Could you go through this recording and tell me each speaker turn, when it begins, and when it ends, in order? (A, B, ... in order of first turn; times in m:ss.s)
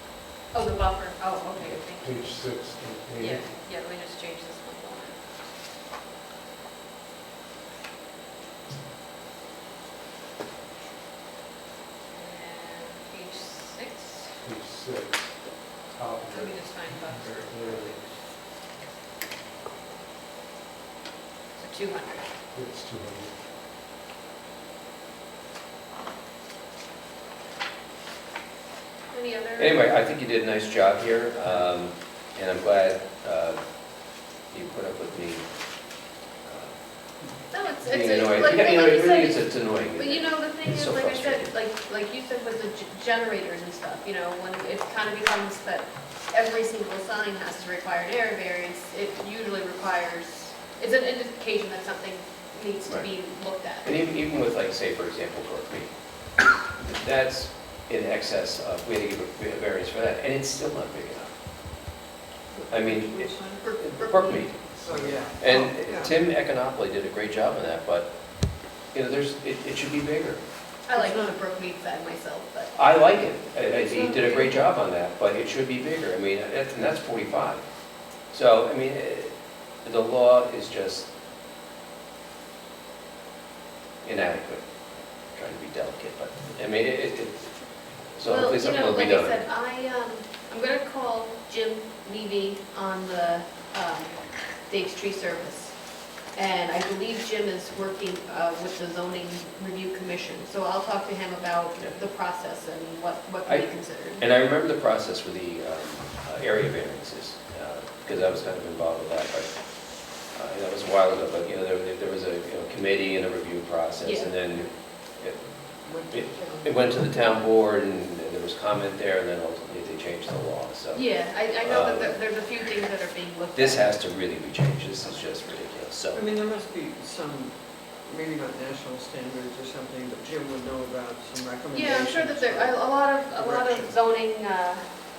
0:00.5-0:05.2 A
0:01.9-0:03.4 B
0:12.1-0:14.3 A
0:14.4-0:17.9 B
0:16.3-0:18.2 A
0:21.6-0:22.3 A
0:22.5-0:23.3 B
0:29.1-0:29.8 A
0:29.6-0:33.6 C
0:34.5-0:35.4 C
0:36.4-0:36.8 C
0:37.5-0:53.9 A
0:37.8-0:41.5 C
0:52.8-0:53.2 C
0:53.8-0:55.9 C
0:56.8-1:01.4 C
1:02.5-1:03.6 D
1:02.7-1:04.5 C
1:03.6-1:04.5 A
1:04.8-1:05.3 B
1:04.8-1:06.1 D
1:05.4-1:08.1 C
1:08.9-1:10.4 C
1:10.8-1:12.8 A
1:10.9-1:11.4 D
1:12.7-1:17.6 C
1:13.9-1:14.6 D
1:18.3-1:21.1 C
1:24.0-1:24.6 C
1:25.3-1:29.4 C
1:28.3-1:35.8 A
1:36.3-1:44.3 A
1:43.4-1:49.5 C
1:50.3-2:02.2 C
1:54.0-1:54.3 A
1:55.8-1:57.1 D
2:00.9-2:04.0 A
2:03.5-2:06.2 C
2:06.1-2:12.8 D
2:11.7-2:14.8 A
2:13.3-2:13.9 D